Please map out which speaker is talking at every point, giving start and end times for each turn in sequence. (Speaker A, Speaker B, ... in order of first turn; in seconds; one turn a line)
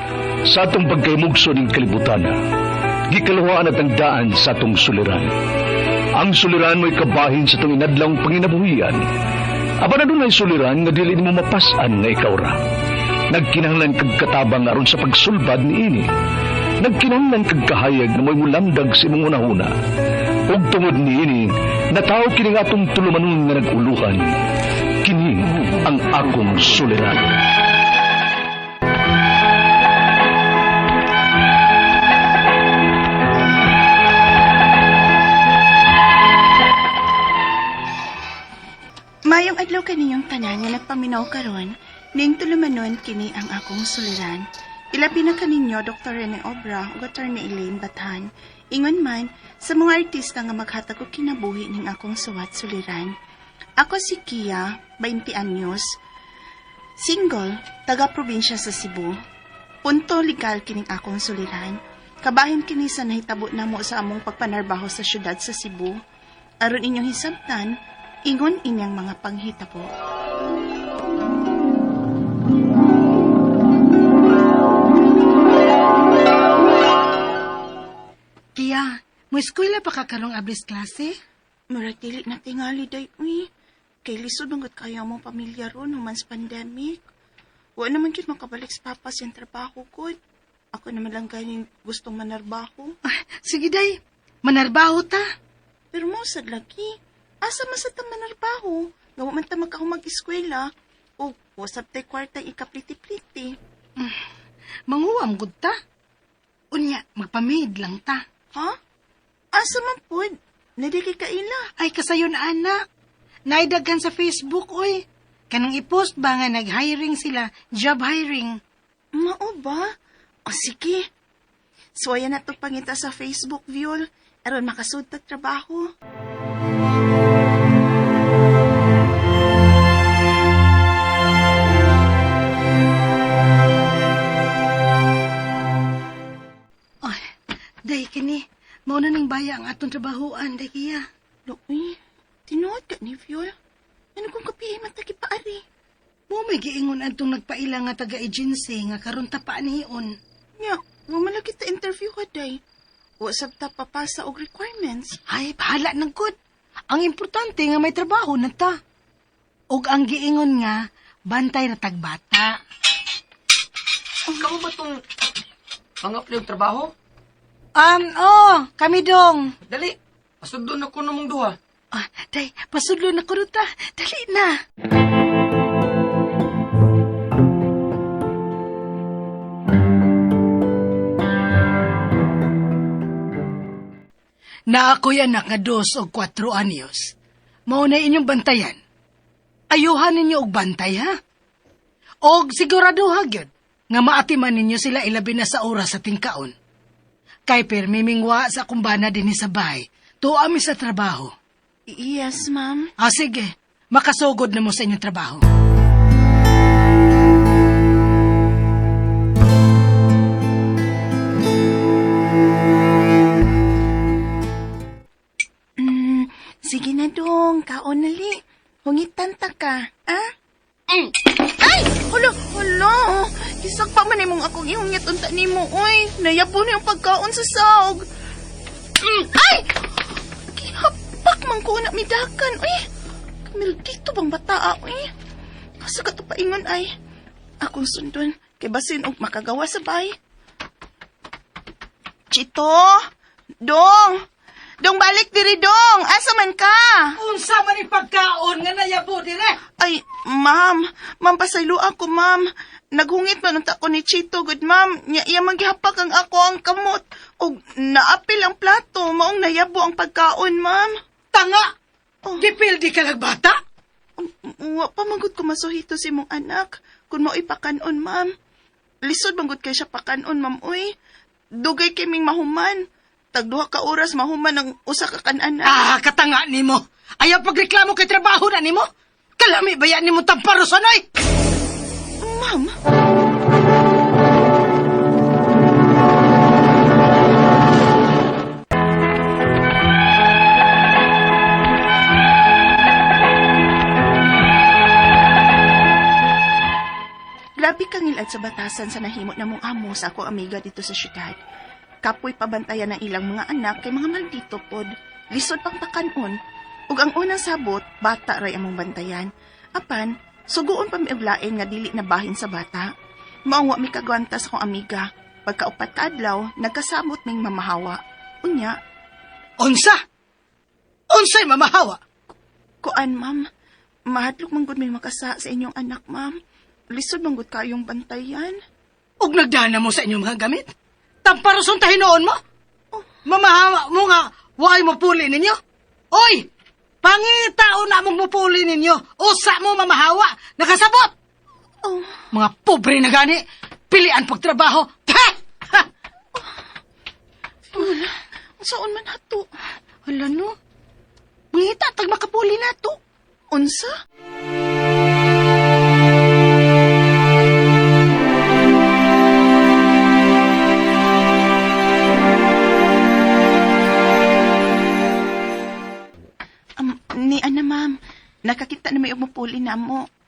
Speaker A: 0.5-2.3
Speaker A: 3.1-5.3
Speaker A: 6.2-9.0
Speaker A: 9.8-12.5
Speaker A: 13.3-16.0
Speaker A: 16.8-19.7
Speaker A: 20.5-21.4
Speaker A: 22.0-24.3
Speaker A: 25.1-27.2
Speaker B: 39.3-53.1
Speaker B: 53.8-56.0
Speaker B: 57.0-59.1
Speaker B: 59.8-66.0
Speaker B: 66.6-67.7
Speaker B: 68.2-69.9
Speaker C: 78.5-81.2
Speaker B: 81.7-83.5
Speaker B: 84.0-87.0
Speaker B: 87.8-90.2
Speaker B: 90.7-93.0
Speaker C: 93.1-95.2
Speaker B: 95.9-103.6
Speaker C: 104.9-105.7
Speaker C: 106.7-108.2
Speaker B: 109.5-111.7
Speaker C: 111.8-112.8
Speaker C: 113.5-118.6
Speaker B: 119.1-119.9
Speaker B: 120.5-121.0
Speaker B: 122.0-125.8
Speaker C: 137.8-141.0
Speaker B: 141.5-143.5
Speaker B: 144.2-145.6
Speaker C: 146.3-150.1
Speaker B: 150.6-152.6
Speaker B: 153.2-155.2
Speaker C: 155.3-156.3
Speaker C: 156.9-158.8
Speaker C: 159.7-162.6
Speaker D: 164.4-165.0
Speaker D: 166.0-166.9
Speaker C: 167.8-169.5
Speaker D: 169.7-171.6
Speaker C: 171.9-174.6
Speaker C: 184.7-187.1
Speaker C: 187.7-188.8
Speaker C: 189.7-191.1
Speaker C: 192.2-196.5
Speaker C: 197.5-201.3
Speaker B: 201.9-202.9
Speaker C: 203.0-205.4
Speaker B: 215.8-220.3
Speaker B: 221.4-228.1
Speaker B: 229.0-229.9
Speaker B: 230.5-232.8
Speaker B: 233.5-235.1
Speaker B: 235.8-236.9
Speaker B: 237.6-240.2
Speaker B: 242.3-243.1
Speaker B: 243.6-244.2
Speaker B: 244.8-247.2
Speaker C: 247.2-249.6
Speaker B: 249.8-260.9
Speaker C: 261.3-261.7
Speaker C: 262.4-263.6
Speaker B: 264.2-268.3
Speaker B: 269.0-270.9
Speaker B: 271.6-275.9
Speaker C: 275.6-278.9
Speaker C: 279.4-281.0
Speaker B: 282.2-282.7
Speaker B: 297.6-301.4
Speaker B: 302.0-306.4
Speaker B: 306.9-312.9
Speaker B: 313.5-318.8
Speaker C: 319.6-320.0
Speaker C: 321.1-322.0
Speaker B: 322.8-323.5
Speaker B: 324.1-326.4
Speaker B: 326.9-328.6
Speaker C: 329.2-330.7
Speaker C: 331.2-332.4
Speaker B: 332.9-333.2
Speaker C: 333.2-335.6
Speaker C: 336.1-336.5
Speaker C: 337.0-341.1
Speaker B: 341.8-342.3
Speaker C: 342.3-345.9
Speaker B: 346.3-346.6
Speaker B: 347.7-349.5
Speaker C: 350.1-350.5
Speaker C: 351.5-353.0
Speaker B: 353.5-353.9
Speaker B: 366.8-370.1